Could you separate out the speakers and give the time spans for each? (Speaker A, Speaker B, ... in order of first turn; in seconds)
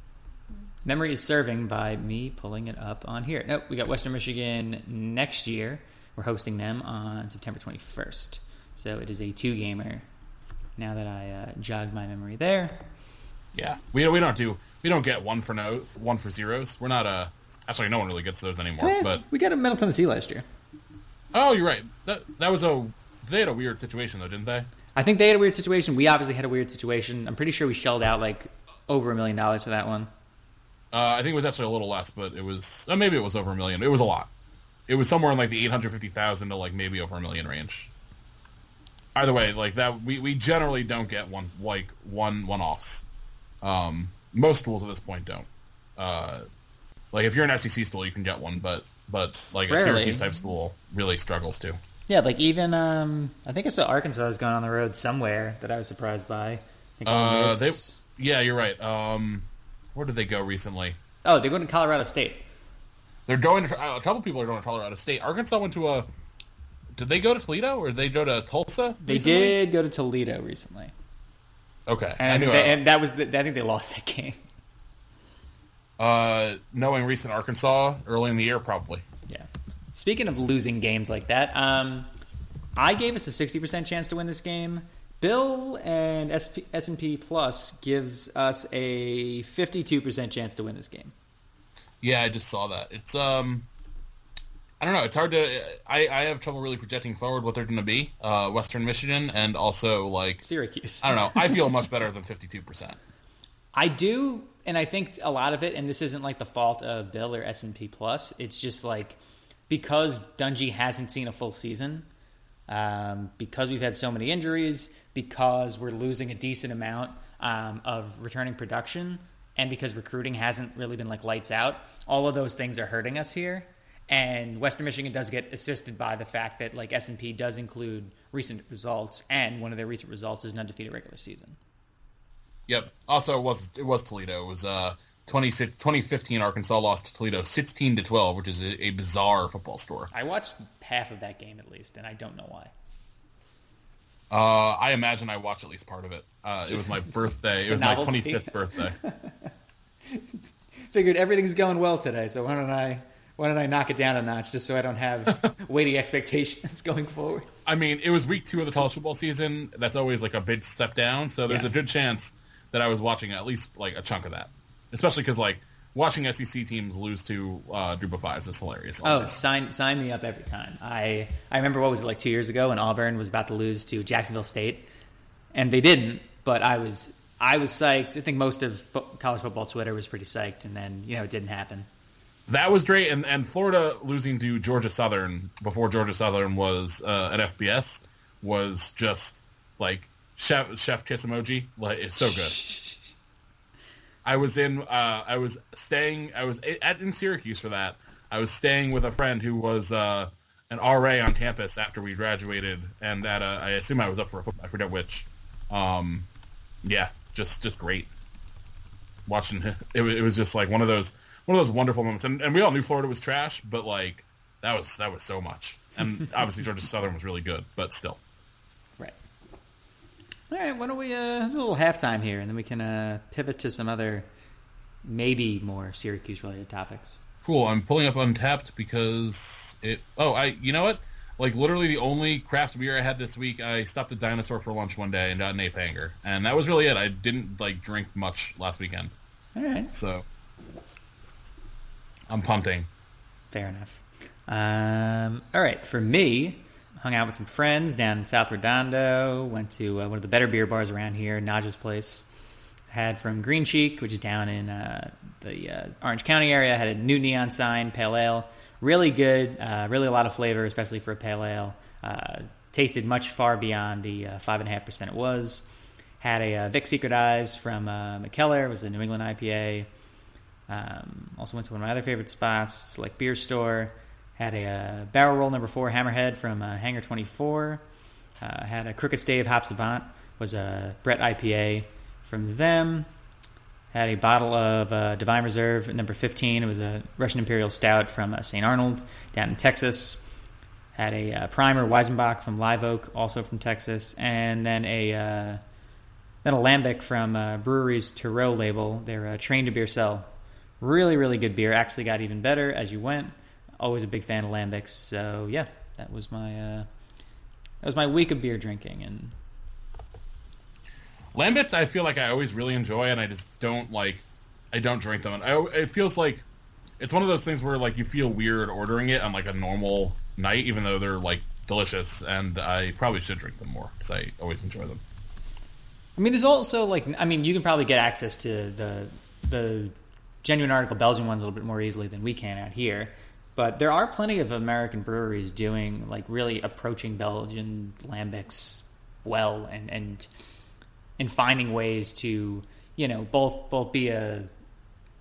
Speaker A: 0.8-10.1, 10.8-12.9, 18.8-20.4, 25.0-30.1, 49.7-50.3, 52.1-58.0, 61.2-62.5, 69.0-70.9, 72.2-74.4, 79.3-82.1, 82.8-91.1, 100.4-101.6, 103.8-109.2, 109.7-112.1, 112.7-131.6, 140.1-142.7, 147.7-149.5, 150.9-157.5, 169.0-174.9, 175.5-181.9, 192.6-193.0, 220.5-224.3, 225.1-227.2, 239.6-239.9, 243.5-252.3, 252.9-265.6, 266.2-269.9, 270.7-277.8, 278.4-283.1, 283.9-290.2, 290.9-295.6, 296.4-300.3, 300.8-306.9, 307.8-309.4, 326.2-340.3, 341.2-344.5
Speaker B: 13.6-19.2, 21.3-24.7, 30.9-34.3, 34.9-37.9, 39.1-43.1, 43.6-46.5, 47.1-51.8, 57.1-61.0, 63.3-66.1, 67.0-69.6, 71.9-72.8, 76.0-79.0, 92.0-93.7, 94.8-100.5, 101.0-103.0, 132.7-140.1, 144.3-149.0, 157.7-169.4, 182.5-192.6, 194.2-206.3, 206.8-208.1, 209.3-218.2, 227.4-239.1, 239.9-240.2, 242.3-242.9, 311.3-316.4, 317.0-325.0